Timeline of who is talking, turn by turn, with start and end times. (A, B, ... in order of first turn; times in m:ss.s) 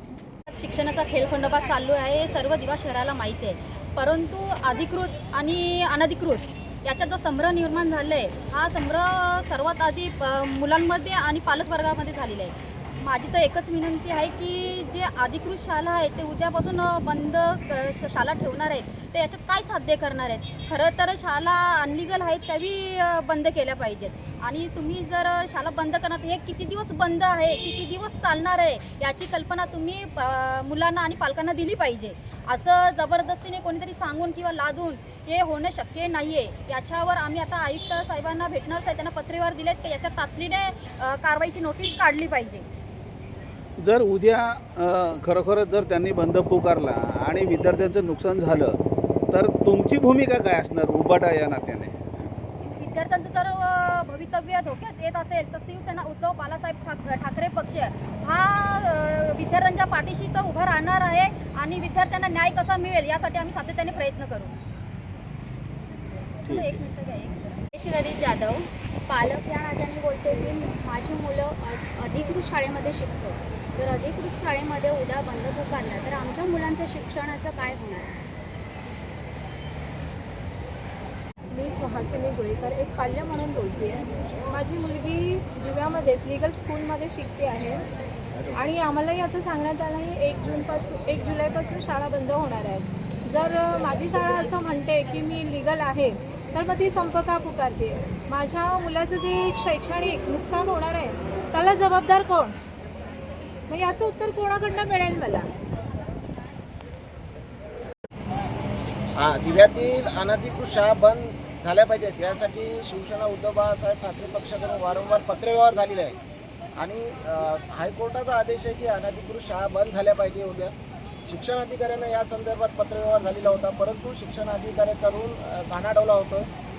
0:00.5-0:42.6 A
0:43.8-0:48.8 B
0:49.3-0:52.0 B
0:52.7-1:04.5 A
1:06.4-1:06.8 B
1:06.4-1:07.7 A
1:07.8-1:18.1 C
1:21.5-1:27.8 D
1:28.5-1:42.6 D
1:43.7-1:45.5 D
1:49.2-1:56.2 E
1:56.8-2:00.7 E
2:01.3-2:06.5 E